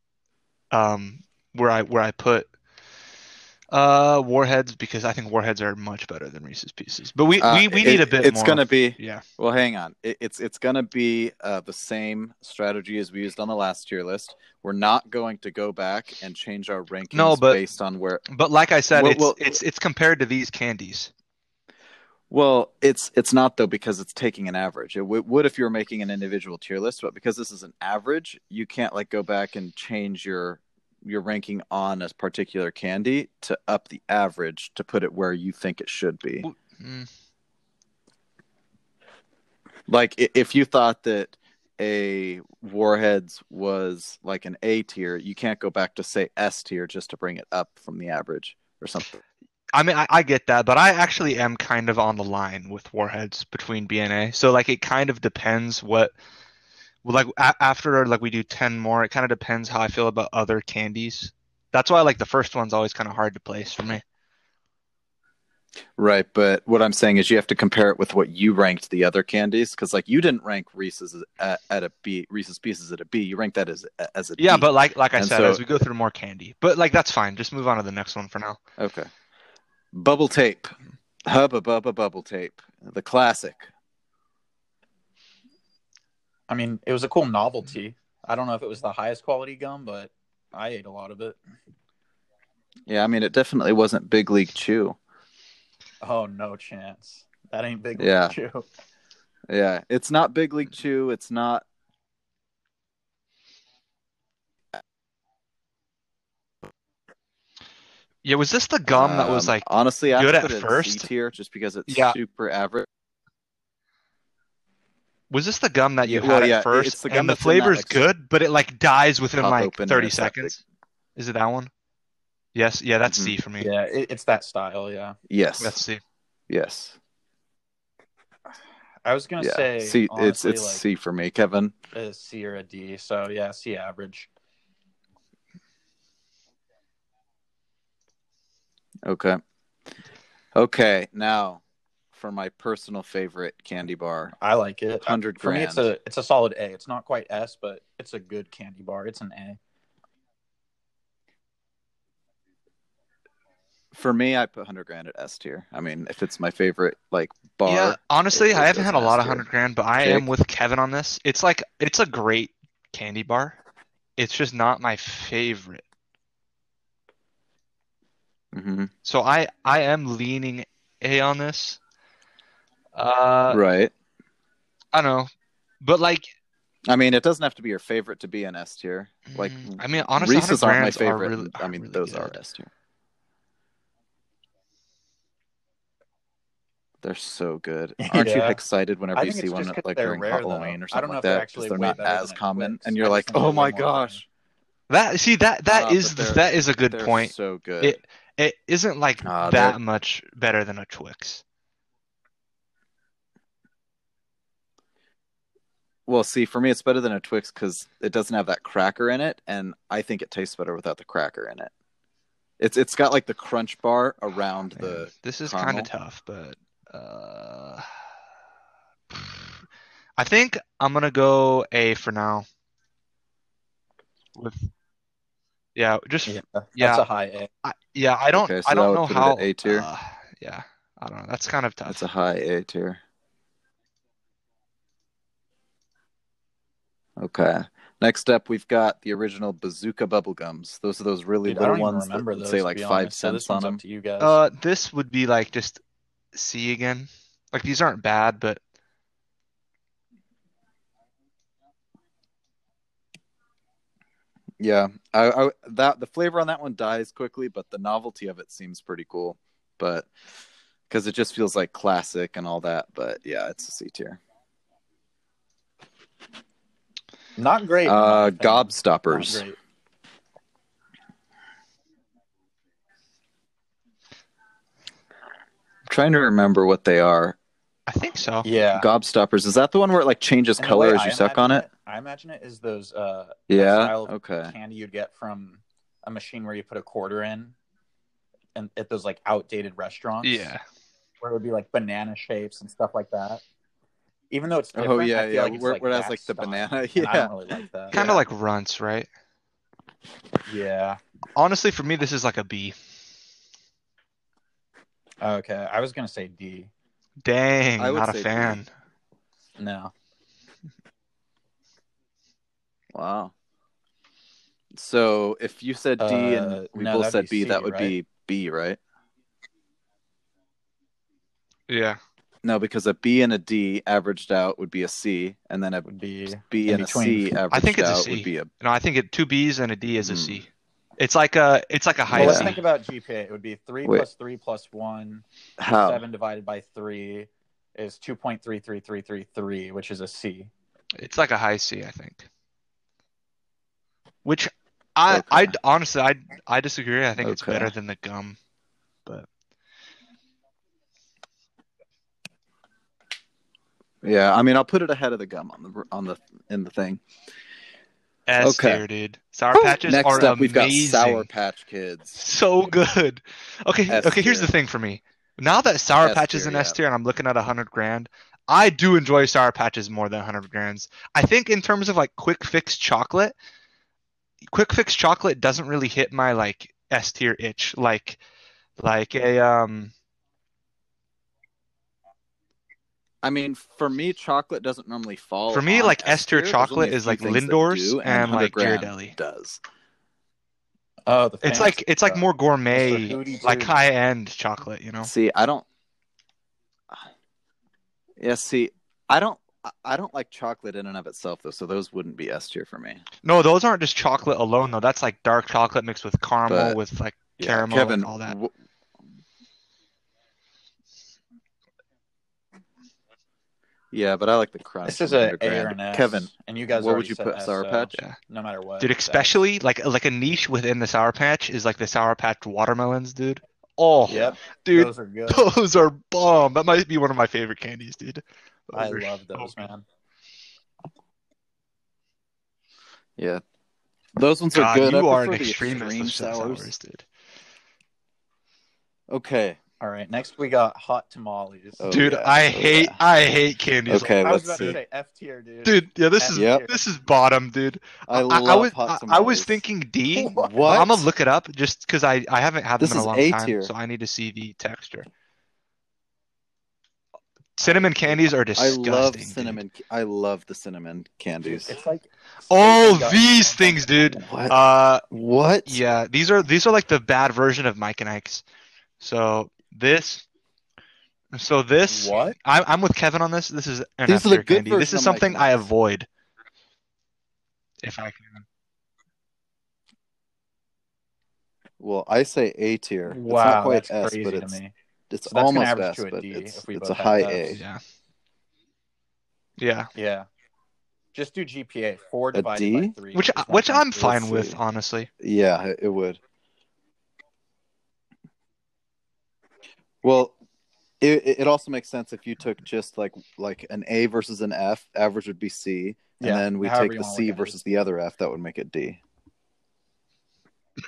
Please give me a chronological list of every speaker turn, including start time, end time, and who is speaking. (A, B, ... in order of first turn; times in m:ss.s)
0:00.7-0:02.5 A
0:03.7-0:09.2 A
0:07.4-0:18.3 B
0:17.1-0:17.6 A
0:18.3-0:21.1 A
0:18.9-0:19.6 B
0:22.3-0:36.5 B
0:36.4-0:37.1 A
0:39.9-0:49.2 B
0:49.7-0:56.1 A
0:57.0-1:04.0 A
1:06.0-1:15.6 B
1:14.4-1:18.6 A
1:18.8-1:19.1 B
1:19.9-1:20.7 B
1:21.3-1:23.7 B
1:26.5-1:31.4 C
1:32.9-1:35.0 B
1:36.0-1:38.7 C
1:38.0-1:38.4 B
1:39.5-1:41.6 B
1:48.2-1:51.1 A
1:48.9-1:52.9 B
1:51.9-1:52.2 A
1:55.3-2:00.5 A
1:56.0-1:58.0 B
1:59.4-2:00.6 B
2:01.2-2:01.7 A
2:02.6-2:03.7 A
2:03.1-2:03.4 B
2:03.6-2:05.2 C
2:05.3-2:05.8 B
2:05.6-2:06.0 A
2:06.5-2:07.0 B
2:09.0-2:10.8 C
2:09.4-2:11.8 B
2:11.9-2:14.3 C
2:19.0-2:19.4 B
2:20.6-2:21.6 B
2:22.1-2:24.3 B
2:24.4-2:29.6 C
2:25.0-2:25.9 B
2:33.9-2:39.4 B
2:37.7-2:43.6 A
2:40.0-2:40.3 B
2:44.2-2:45.8 A
2:48.5-2:48.9 B
2:49.0-2:51.8 A
2:53.0-2:53.6 A
2:53.5-2:53.9 B
2:54.9-2:55.3 A
2:55.8-2:56.3 A
2:56.9-3:02.7 B
2:59.3-3:02.4 A
3:07.0-3:14.2 B
3:08.0-3:08.6 C
3:09.2-3:14.2 C
3:14.9-3:21.4 A
3:15.7-3:18.0 B
3:19.2-3:19.8 B
3:26.1-3:31.7 B
3:32.6-3:35.9 B
3:34.8-3:37.9 A
3:39.1-3:39.5 A
3:40.2-3:42.5 A
3:44.4-3:44.7 A
3:45.8-3:47.0 A
3:46.3-3:47.5 C
3:47.6-3:52.1 A
3:48.3-3:49.9 B
3:51.9-3:53.0 B
3:57.2-4:03.8 B
4:01.4-4:04.4 C
4:04.2-4:05.8 A
4:06.3-4:08.6 A
4:14.6-4:20.1 B
4:20.9-4:24.2 B
4:27.4-4:29.6 C
4:27.8-4:29.4 B
4:35.9-4:37.4 B
4:37.9-4:38.5 A
4:38.4-4:38.9 C
4:38.7-4:41.7 B
4:40.6-4:47.6 C
4:43.5-4:44.5 B
4:48.6-4:50.5 C
4:50.2-4:50.6 A
4:51.2-4:53.4 C
4:54.3-4:58.1 C
4:54.8-4:57.3 B
4:57.9-4:58.2 B
4:57.9-4:59.1 A
5:00.5-5:01.0 C
5:01.4-5:02.8 A
5:05.2-5:06.7 C
5:07.2-5:08.7 A
5:07.8-5:08.6 B
5:09.6-5:09.9 C
5:12.9-5:13.3 B
5:14.7-5:18.8 B
5:16.0-5:18.0 C
5:21.7-5:22.0 A
5:22.4-5:28.5 B
5:25.9-5:27.4 C
5:27.5-5:32.6 A
5:30.0-5:30.4 B
5:32.1-5:32.6 B
5:32.1-5:40.5 C
5:35.6-5:36.0 B
5:41.0-5:42.3 A
5:44.2-5:48.4 A
5:45.1-5:45.6 B
5:47.2-5:47.7 B
5:54.0-5:57.0 B
5:58.3-6:01.3 A
5:58.4-5:58.8 B
5:59.5-6:02.2 B
6:02.2-6:13.3 A
6:03.9-6:04.5 B
6:06.0-6:06.8 B
6:14.5-6:18.2 A
6:18.8-6:19.9 A
6:23.2-6:29.6 B
6:25.5-6:29.2 A
6:31.1-6:33.7 C
6:31.4-6:35.1 A
6:35.0-6:35.6 B
6:38.2-6:43.0 B
6:43.2-6:48.4 A
6:46.5-6:46.8 B
6:47.4-6:48.5 B
6:53.9-6:58.0 B
6:54.8-6:59.4 C
6:58.8-7:09.7 A
7:04.1-7:04.4 B
7:04.1-7:05.5 C
7:08.7-7:09.8 C
7:13.2-7:13.4 B
7:14.2-7:16.7 B
7:14.5-7:17.0 A
7:19.1-7:19.6 B
7:19.8-7:21.8 C
7:21.8-7:23.0 B
7:21.9-7:24.8 A
7:23.9-7:24.8 B
7:24.2-7:26.8 C
7:25.6-7:35.1 A
7:26.4-7:26.6 B
7:28.1-7:29.6 B
7:30.2-7:30.6 C
7:30.4-7:31.1 B
7:32.8-7:33.7 B
7:37.6-7:39.6 A
7:37.6-7:37.9 B
7:38.6-7:41.8 B
7:41.4-7:44.1 C
7:42.5-7:45.0 A
7:44.2-7:44.6 B
7:45.1-7:45.8 B
7:45.7-7:48.4 A
7:49.0-7:50.2 A
7:51.3-7:56.1 A
7:51.9-7:52.4 C
7:54.1-7:55.7 B
7:57.8-7:58.4 A
8:01.8-8:04.6 B
8:03.1-8:04.7 C
8:05.1-8:07.6 B
8:05.3-8:07.6 C
8:09.6-8:09.9 A
8:10.0-8:10.3 C
8:11.1-8:14.0 C
8:12.3-8:13.0 B
8:13.1-8:15.1 A
8:14.0-8:14.6 B
8:15.2-8:16.2 B
8:20.0-8:20.4 B
8:21.0-8:29.0 B
8:26.2-8:27.6 C